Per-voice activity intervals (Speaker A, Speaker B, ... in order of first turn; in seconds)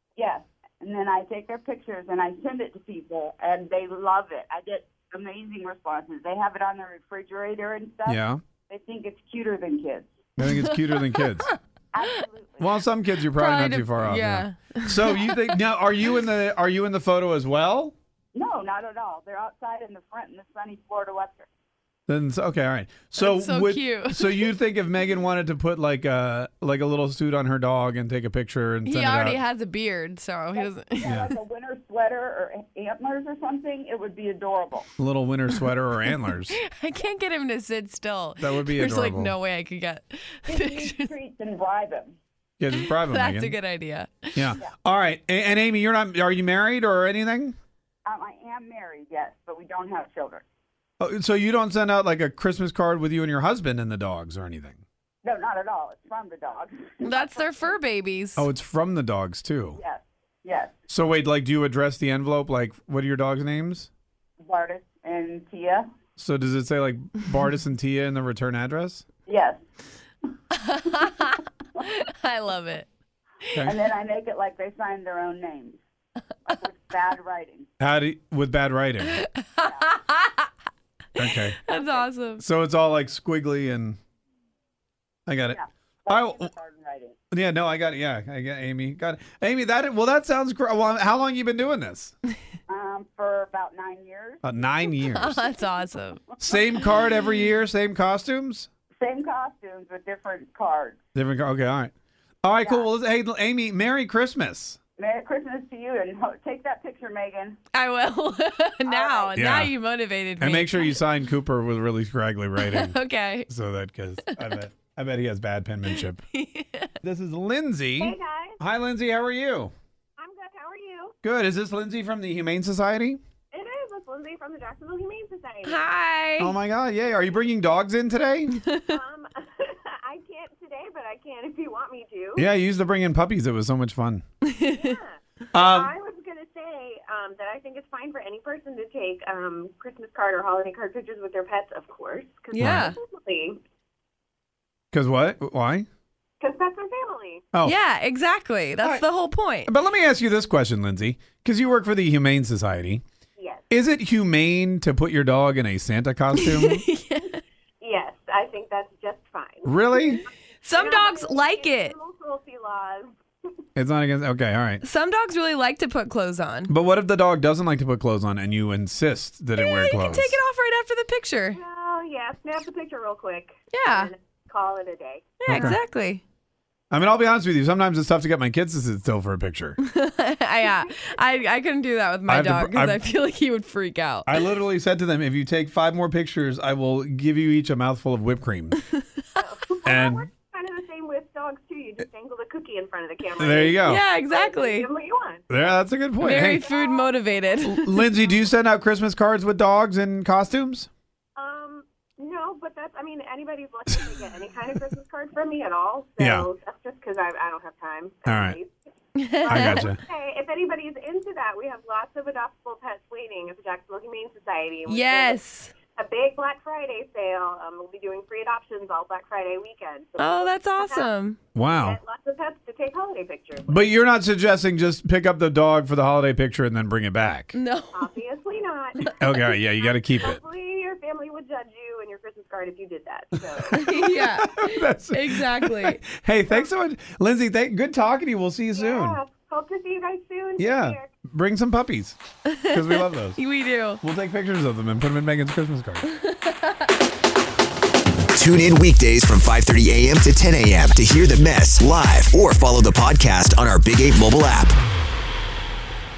Speaker A: 0.1-10.1, 11.9-12.7, 18.3-21.5, 30.5-34.9, 40.5-42.1, 48.0-50.4, 55.2-57.8, 59.8-60.7, 64.4-65.9, 69.3-69.6, 73.6-75.8, 76.4-77.7, 79.6-79.9, 81.7-82.0, 85.5-87.2, 92.7-94.4, 99.0-101.0, 105.0-107.6, 108.9-109.3
Speaker B: 8.1-8.4, 10.4-11.5, 12.6-17.9, 22.1-29.4, 31.0-31.3, 35.0-36.6, 38.4-39.3, 42.6-43.5, 44.3-47.5, 51.0-54.8, 58.4-59.8, 60.9-63.9, 66.2-69.0, 77.8-79.2, 81.2-81.6, 82.4-84.0, 85.3-86.5, 87.3-92.1, 94.4-95.5, 96.4-98.7, 101.1-101.9, 102.4-104.8, 109.3-109.7, 110.4-116.2, 117.0-119.7, 121.2-123.2, 126.4-128.6, 132.4-134.2, 135.5-135.9, 142.6-142.8, 144.9-145.9, 149.6-153.0, 153.7-156.8, 159.7-160.2, 163.8-164.8, 166.7-170.4, 175.5-175.8, 176.9-179.8, 182.3-183.1, 184.2-188.8, 189.9-190.2, 193.4-194.0, 195.5-196.6, 197.6-200.9, 206.2-206.5, 208.2-208.6, 209.5-210.0, 221.5-222.0, 223.7-227.5, 229.0-230.4, 233.7-239.2, 240.6-243.4, 244.0-246.1
Speaker C: 13.3-15.3, 23.2-24.5, 28.8-31.1, 36.5-41.1, 42.7-44.4, 57.0-58.5, 70.5-72.9, 79.2-80.5, 81.6-82.4, 95.1-96.2, 107.7-110.9, 112.8-113.5, 116.3-116.9, 125.6-126.5, 134.4-134.8, 142.5-142.9, 147.6-149.7, 156.3-157.4, 160.6-161.9, 164.8-166.7, 169.6-171.6, 173.7-174.1, 175.4-176.2, 179.8-184.3, 189.0-189.4, 193.9-194.9, 196.2-197.9, 209.1-209.8, 214.8-215.7, 220.2-221.4, 227.5-228.2, 233.7-236.0, 243.4-244.0
Speaker D: 118.0-118.6, 120.2-121.1, 123.5-125.8, 128.7-132.4, 134.7-143.6, 146.4-147.5, 153.4-153.6, 157.2-163.5, 171.5-175.8, 180.6-181.5, 189.3-197.6, 201.3-208.7, 209.3-223.8, 227.9-233.9, 236.3-236.7, 238.7-241.1
Speaker E: 242.5-243.6, 246.1-246.9, 248.3-254.8